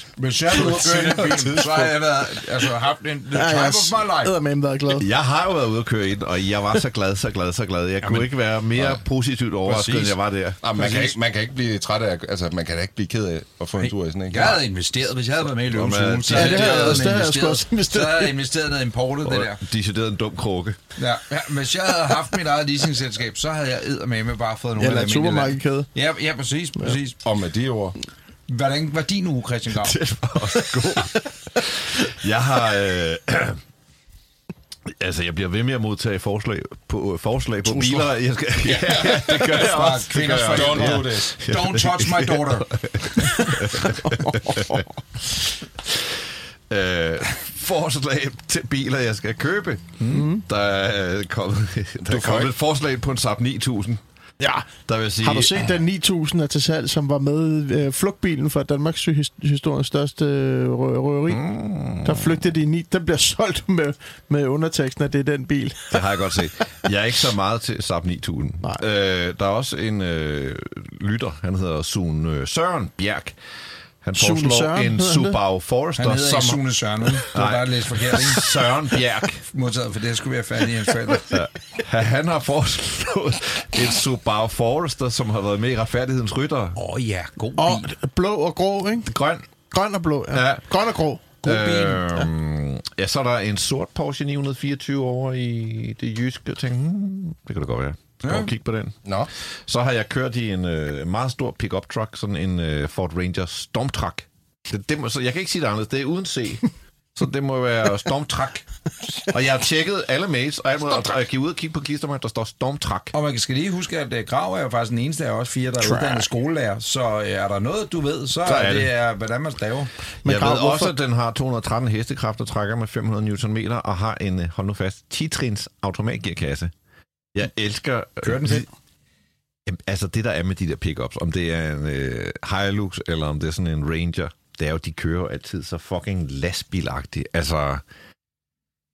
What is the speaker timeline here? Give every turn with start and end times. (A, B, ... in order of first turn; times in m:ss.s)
0:00.2-0:04.3 A
0:00.4-0:01.9 B
0:03.3-0:05.0 C
0:04.9-0:10.6 D
0:08.0-0:08.3 A
0:09.7-0:10.1 A
0:10.6-0:14.6 B
0:10.7-0:11.2 A
0:13.8-0:19.6 A
0:15.6-0:17.2 D
0:16.3-0:18.3 C
0:19.2-0:20.8 D
0:21.0-0:27.2 A
0:24.8-0:25.9 C
0:27.2-0:28.0 B
0:28.5-0:30.0 A
0:29.7-0:33.6 D
0:34.9-0:44.9 D
0:38.6-0:39.8 B
0:39.0-0:42.7 A
0:40.5-0:41.4 B
0:44.1-0:44.8 C
0:46.7-0:54.0 D
0:50.0-0:50.3 A
0:50.1-0:50.4 C
0:52.0-0:52.5 B
0:54.4-0:54.7 C
0:54.8-0:55.7 D
0:55.2-1:01.4 C
1:01.3-1:02.4 D
1:02.0-1:06.0 C
1:05.9-1:13.4 D
1:14.0-1:16.6 D
1:14.1-1:15.4 C
1:16.0-1:18.4 A
1:17.3-1:19.4 D
1:19.4-1:21.4 A
1:21.3-1:26.8 D
1:26.8-1:27.9 A
1:27.6-1:29.1 C
1:29.0-1:29.4 D
1:29.7-1:31.2 C
1:30.3-1:30.7 D
1:31.4-1:32.1 A
1:31.4-1:39.0 D
1:38.2-1:38.5 A
1:39.0-1:39.3 B
1:39.6-1:48.6 D
1:49.3-1:53.1 D
1:53.1-1:59.9 A
1:55.8-1:56.2 C
1:58.4-1:58.9 D
2:00.2-2:00.9 C
2:00.2-2:06.7 D
2:07.3-2:08.7 D
2:08.2-2:08.7 A
2:09.6-2:17.8 D